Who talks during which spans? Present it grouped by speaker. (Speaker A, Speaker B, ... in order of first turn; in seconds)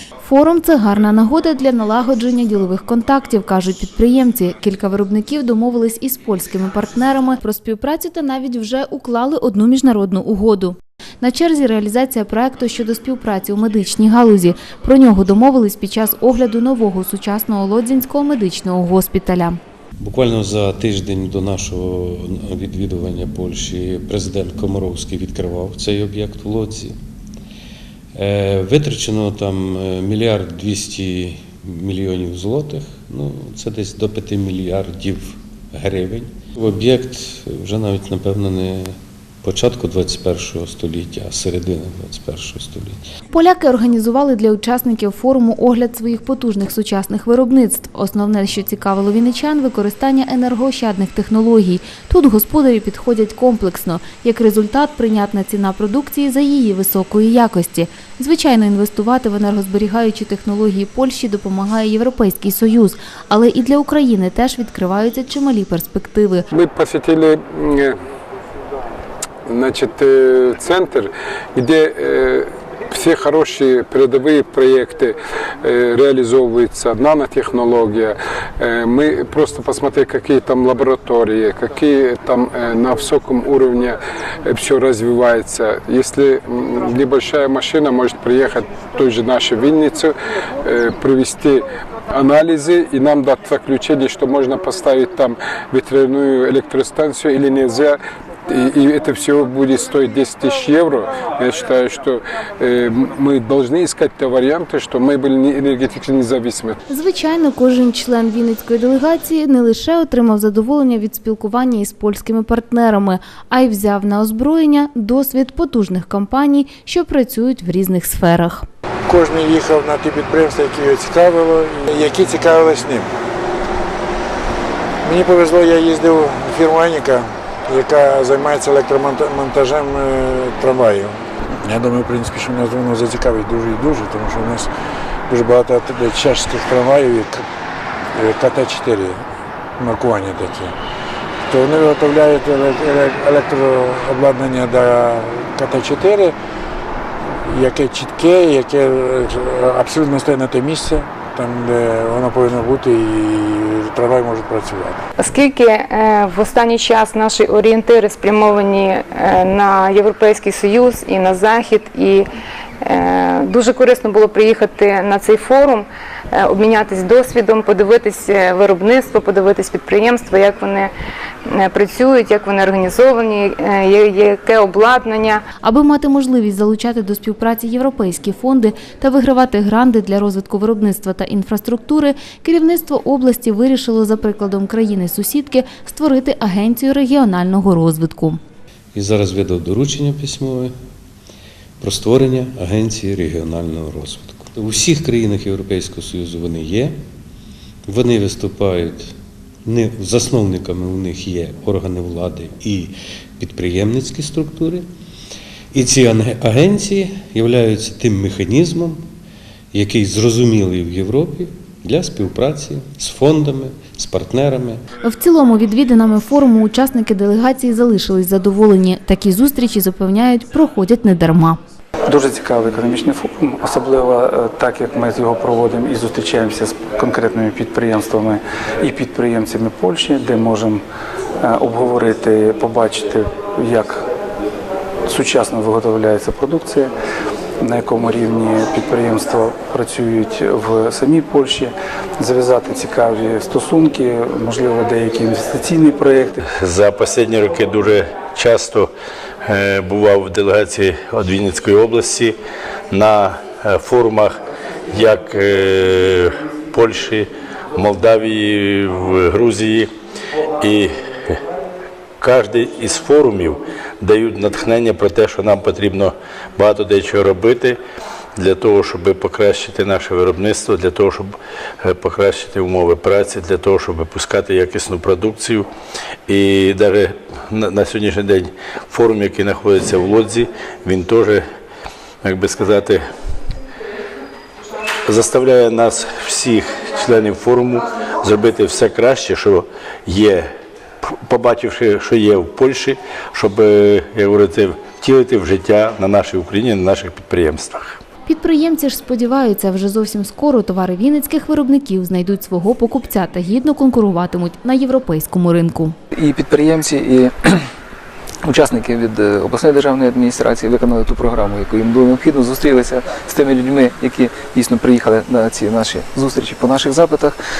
Speaker A: 0.2-19.6, 43.3-66.5, 106.9-118.7, 175.6-188.4, 215.0-221.6, 298.2-305.9
Speaker B: 20.0-26.9, 28.1-43.0, 188.9-190.7, 191.8-196.9, 197.9-199.1, 199.6-204.8, 205.7-209.0, 209.7-214.8
Speaker C: 66.5-68.0, 69.5-98.0, 98.5-106.8
Speaker D: 119.1-123.1, 125.0-134.7, 135.3-137.4, 138.1-139.2, 139.8-140.7, 141.5-146.3, 147.5-155.0
Speaker E: 155.2-162.3, 162.8-170.9, 171.5-175.4
Speaker F: 222.1-230.8, 231.4-234.0, 235.1-236.9, 237.6-246.4
Speaker G: 246.5-248.9, 249.4-252.3, 252.9-254.3, 254.9-259.9, 260.6-261.4, 262.2-267.8, 268.4-275.7, 276.3-281.4, 282.2-283.0, 285.1-290.4, 291.2-298.0
Speaker H: 306.1-307.6, 308.4-317.4